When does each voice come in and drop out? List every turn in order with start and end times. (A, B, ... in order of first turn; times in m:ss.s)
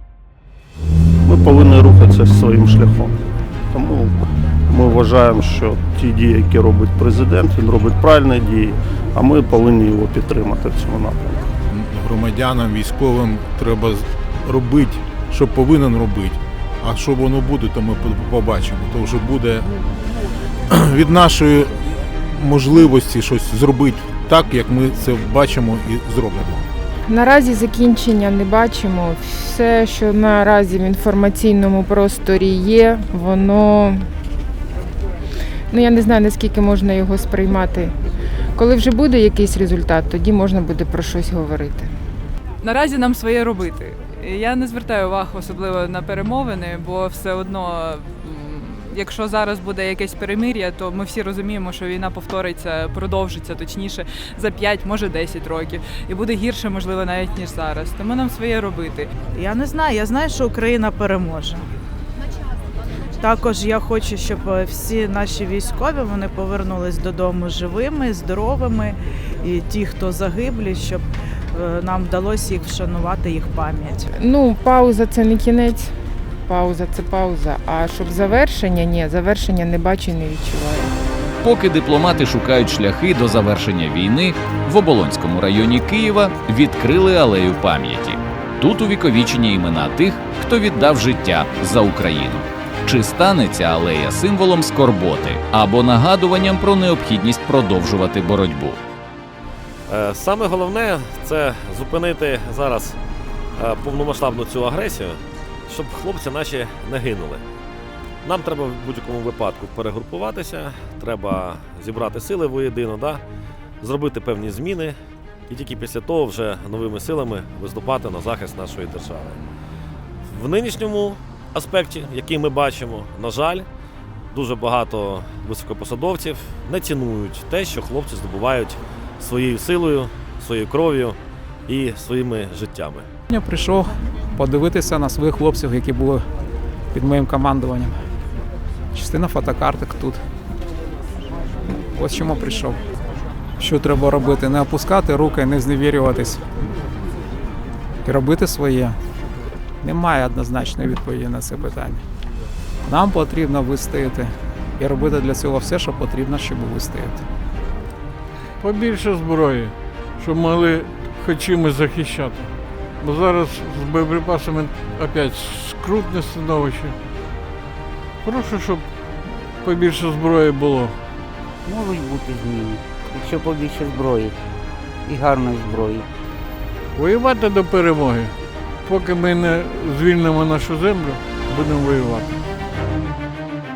0:01.3-0:03.1 A
0:03.7-0:11.5 A
0:11.7-0:19.7 B
0:20.7-0:26.7 B
0:27.1-0:34.0 C
0:35.7-0:37.9 C
0:38.6-0:41.9 C
0:42.6-0:59.1 D
0:59.3-1:01.6 E
1:03.2-1:14.1 E
1:14.2-1:15.9 C
1:16.5-1:20.9 C
1:21.4-1:38.8 F
1:39.9-1:43.0 G
1:43.6-1:47.4 G
1:48.2-1:53.2 G
1:53.8-1:55.0 G
1:55.5-1:59.4 G
2:00.3-2:03.7 G
2:04.3-2:13.1 G
2:13.3-2:16.2 H
2:16.9-2:18.0 H
2:18.9-2:20.2 H
2:21.9-2:22.8 H
2:23.6-2:26.4 H
2:28.0-2:29.0 H
2:29.8-2:32.0 H
2:32.9-2:37.2 H
2:38.6-2:47.0 I
2:48.2-2:51.0 I
2:51.6-2:54.4 J
2:55.0-2:56.1 J
2:57.0-2:58.3 I
2:58.8-3:02.3 I